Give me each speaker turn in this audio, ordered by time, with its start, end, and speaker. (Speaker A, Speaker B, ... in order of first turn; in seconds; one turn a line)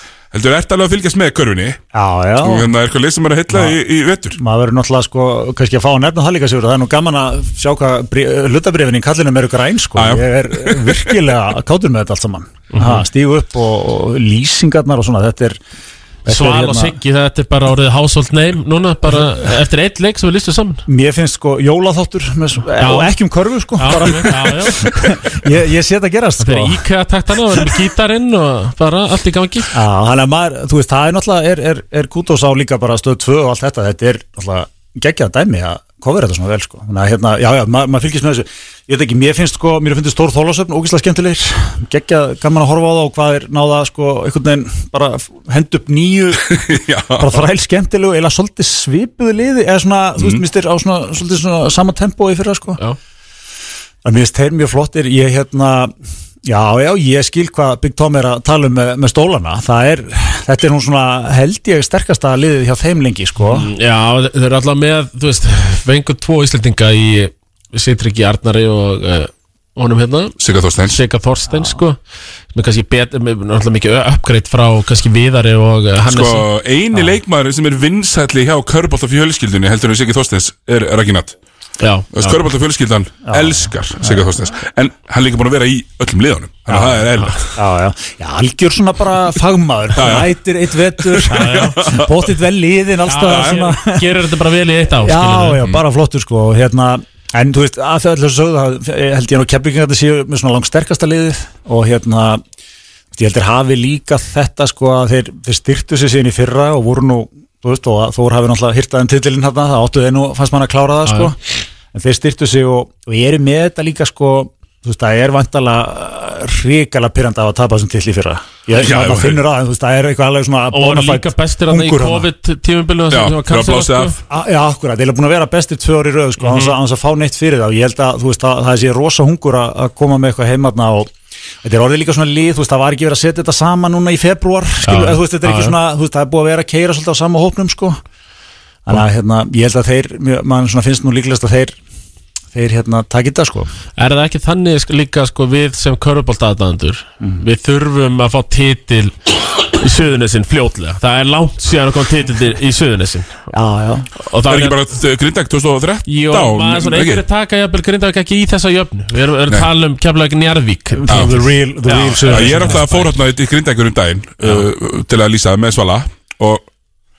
Speaker A: 0.3-1.8
Speaker B: 1.9-2.7
Speaker A: 2.4-4.4
Speaker B: 3.5-3.8
Speaker B: 4.3-15.6
Speaker A: 9.9-11.2
Speaker C: 12.7-13.1
Speaker B: 16.2-17.0
Speaker C: 16.3-20.9
Speaker B: 20.9-26.8
Speaker C: 22.8-23.1
Speaker C: 23.8-25.0
Speaker C: 26.4-29.7
Speaker B: 29.7-46.6
Speaker A: 46.5-47.4
Speaker B: 47.1-52.8
Speaker A: 50.2-50.4
Speaker B: 54.0-55.9
Speaker B: 56.4-63.7
Speaker C: 63.4-72.0
Speaker A: 70.4-71.0
Speaker B: 71.5-71.8
Speaker C: 72.5-76.5
Speaker A: 76.1-81.3
Speaker C: 81.8-82.4
Speaker A: 82.1-87.6
Speaker B: 83.2-84.3
Speaker B: 86.7-94.1
Speaker A: 89.9-90.3
Speaker A: 90.9-92.2
Speaker C: 91.2-92.0
Speaker C: 93.0-95.7
Speaker A: 93.2-93.6
Speaker B: 95.0-102.4
Speaker B: 103.1-111.4
Speaker C: 111.0-111.3
Speaker B: 111.9-122.3
Speaker A: 118.7-119.4
Speaker C: 120.7-124.2
Speaker A: 123.1-124.1
Speaker B: 124.3-131.1
Speaker C: 126.4-126.8
Speaker B: 131.6-138.0
Speaker C: 134.8-135.8
Speaker B: 138.8-141.8
Speaker B: 142.5-143.7
Speaker C: 144.0-153.4
Speaker B: 153.5-154.1
Speaker C: 154.2-154.8
Speaker A: 154.4-157.2
Speaker C: 156.1-163.2
Speaker B: 161.0-162.8
Speaker A: 161.1-161.4
Speaker A: 162.2-166.7